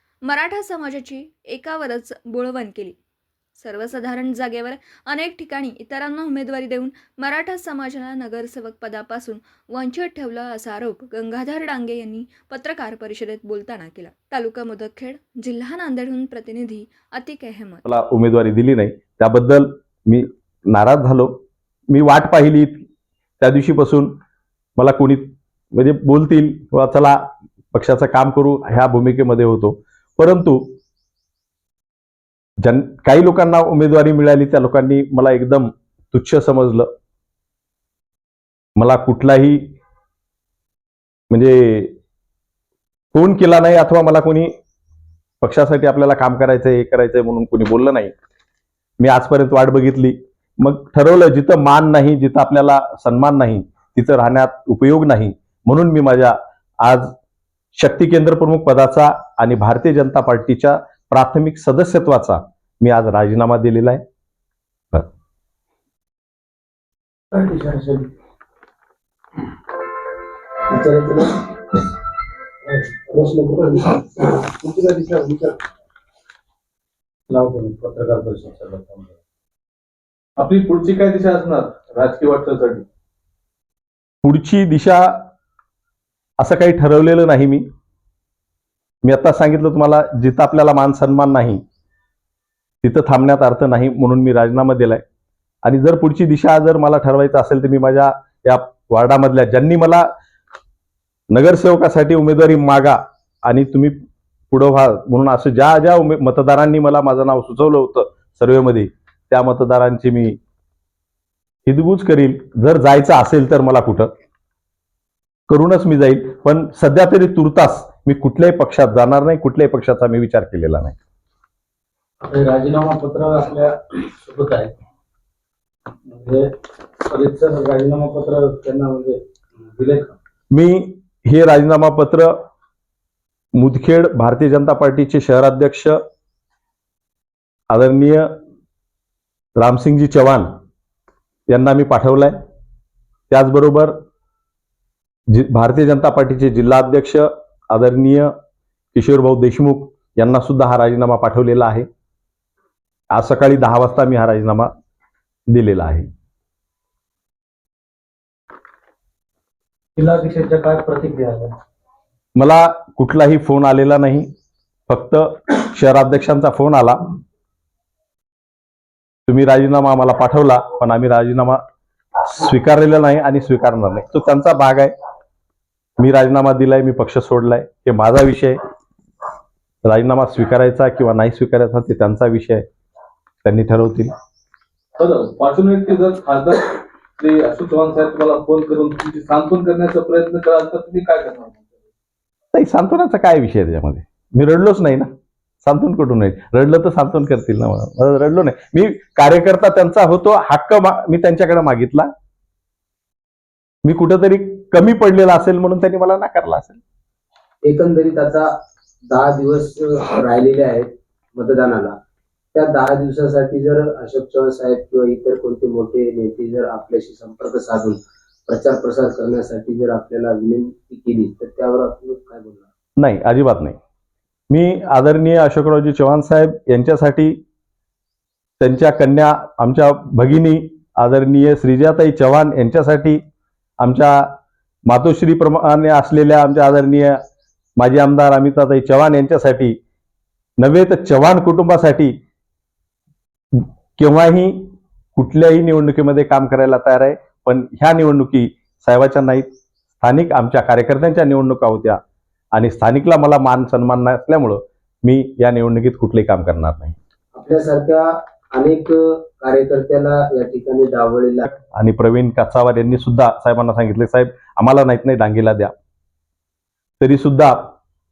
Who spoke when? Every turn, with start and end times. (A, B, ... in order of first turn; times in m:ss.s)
0:00.2-0:03.0 A
0:03.6-0:17.8 A
0:17.8-0:21.4 B
0:21.9-0:22.8 B
0:23.4-0:24.2 B
0:24.8-0:27.2 B
0:27.7-0:30.8 B
0:32.6-0:36.9 B
0:38.8-0:39.7 B
0:41.3-0:41.9 B
0:43.1-0:44.5 B
0:45.4-0:48.1 B
0:49.0-0:57.1 B
0:57.7-1:04.0 B
1:07.3-1:08.0 C
1:10.7-1:11.8 D
1:12.8-1:15.6 D
1:17.3-1:18.6 C
1:20.4-1:22.8 E
1:24.2-1:25.2 B
1:26.4-1:27.6 B
1:29.0-1:31.6 B
1:32.8-1:35.0 B
1:35.6-1:40.1 B
1:41.3-1:44.0 B
1:44.5-1:50.4 B
1:51.6-1:54.1 B
1:55.5-2:00.9 B
2:02.2-2:03.7 C
2:04.3-2:04.6 C
2:06.1-2:06.4 C
2:07.1-2:09.1 C
2:09.8-2:10.1 C
2:10.5-2:12.3 B
2:13.5-2:16.0 B
2:17.7-2:18.3 B
2:19.6-2:20.5 B
2:21.5-2:22.4 B
2:23.3-2:24.0 B
2:25.3-2:28.3 B
2:28.9-2:31.8 B
2:33.1-2:34.7 B
2:35.5-2:36.1 B
2:40.0-2:41.5 C
2:42.4-2:44.3 B
2:44.9-2:47.0 B
2:49.3-2:51.6 B
2:52.2-2:54.9 B
2:56.0-2:58.6 B
2:59.8-3:02.6 B
3:03.4-3:04.1 B
3:05.0-3:11.7 E
3:12.5-3:15.1 B
3:15.6-3:22.1 B
3:23.8-3:26.8 B
3:27.6-3:28.5 D
3:29.1-3:31.9 D
3:32.5-3:42.6 D
3:43.0-3:43.8 B
3:44.5-3:47.4 B
3:48.6-3:53.2 B
3:53.8-3:54.3 B
3:54.9-3:57.2 B
3:57.8-3:59.8 B
4:00.6-4:02.1 B
4:03.5-4:09.5 B
4:10.0-4:12.0 B
4:12.5-4:17.0 B
4:17.3-4:21.4 D
4:21.4-4:25.7 B
4:27.0-4:27.7 B